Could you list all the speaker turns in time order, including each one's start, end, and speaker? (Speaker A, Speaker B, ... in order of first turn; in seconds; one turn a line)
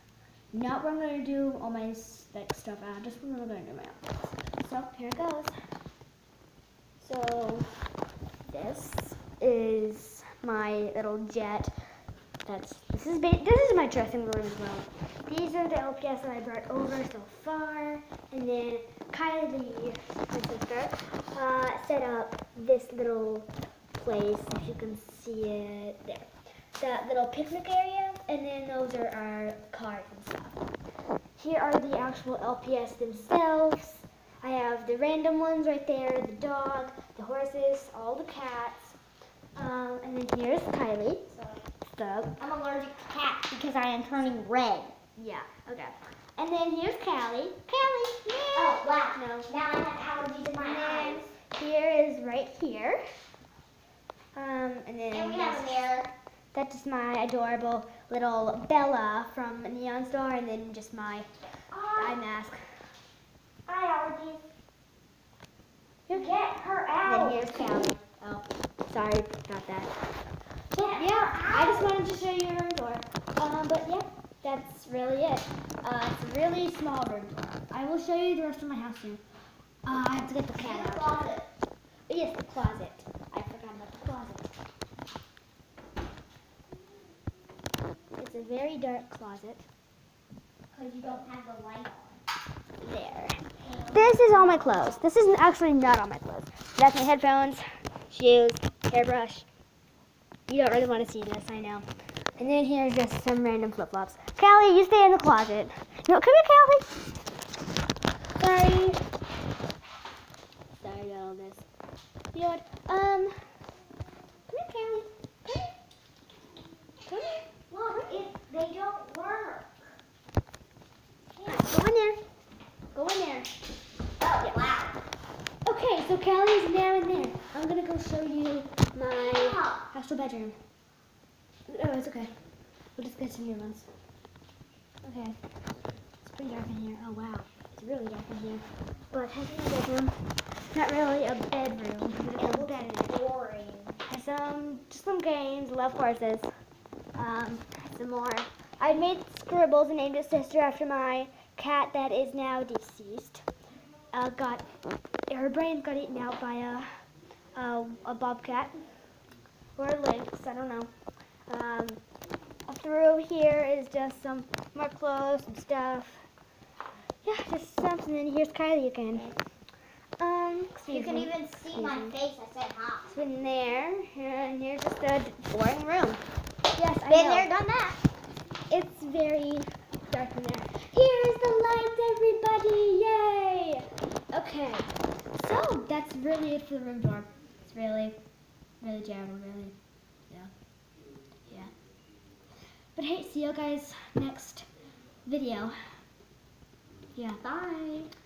Speaker A: 0.5-5.5
Speaker A: 7.0-7.7
Speaker A: 8.4-11.7
Speaker A: 12.4-30.6
Speaker A: 31.4-39.0
Speaker A: 39.5-42.4
Speaker B: 42.4-44.9
Speaker A: 45.2-49.5
Speaker B: 48.5-51.3
Speaker A: 50.6-53.0
Speaker A: 54.3-55.9
Speaker B: 55.1-56.1
Speaker A: 56.5-61.3
Speaker B: 61.7-62.2
Speaker A: 61.9-62.6
Speaker B: 63.7-64.4
Speaker B: 66.1-68.0
Speaker A: 67.0-69.9
Speaker B: 70.7-71.9
Speaker A: 70.9-79.2
Speaker A: 79.8-81.2
Speaker B: 80.6-81.5
Speaker A: 82.1-84.5
Speaker A: 88.2-89.7
Speaker B: 90.7-92.2
Speaker A: 92.8-99.5
Speaker B: 93.6-95.0
Speaker A: 100.5-101.8
Speaker A: 102.4-107.0
Speaker A: 108.4-109.0
Speaker A: 110.7-111.7
Speaker A: 112.3-113.3
Speaker A: 114.5-115.7
Speaker A: 117.1-117.4
Speaker B: 117.7-119.8
Speaker B: 121.3-121.8
Speaker A: 121.5-122.2
Speaker A: 122.9-123.5
Speaker B: 124.2-125.0
Speaker A: 125.6-130.6
Speaker B: 129.2-129.8
Speaker A: 131.7-132.3
Speaker A: 132.9-133.9
Speaker A: 135.0-135.4
Speaker A: 136.2-143.2
Speaker B: 142.3-144.0
Speaker A: 144.1-146.5
Speaker A: 147.2-153.4
Speaker A: 154.1-154.6
Speaker A: 155.3-156.9
Speaker A: 157.5-158.7
Speaker A: 159.8-160.9
Speaker A: 161.5-162.0
Speaker A: 162.7-166.2
Speaker A: 167.2-169.3
Speaker A: 170.2-172.2
Speaker B: 170.9-173.1
Speaker A: 173.1-176.2
Speaker A: 176.7-177.5
Speaker B: 177.1-178.0
Speaker A: 178.7-188.2
Speaker A: 188.8-189.8
Speaker A: 192.9-194.7
Speaker A: 195.2-195.8
Speaker A: 197.1-198.1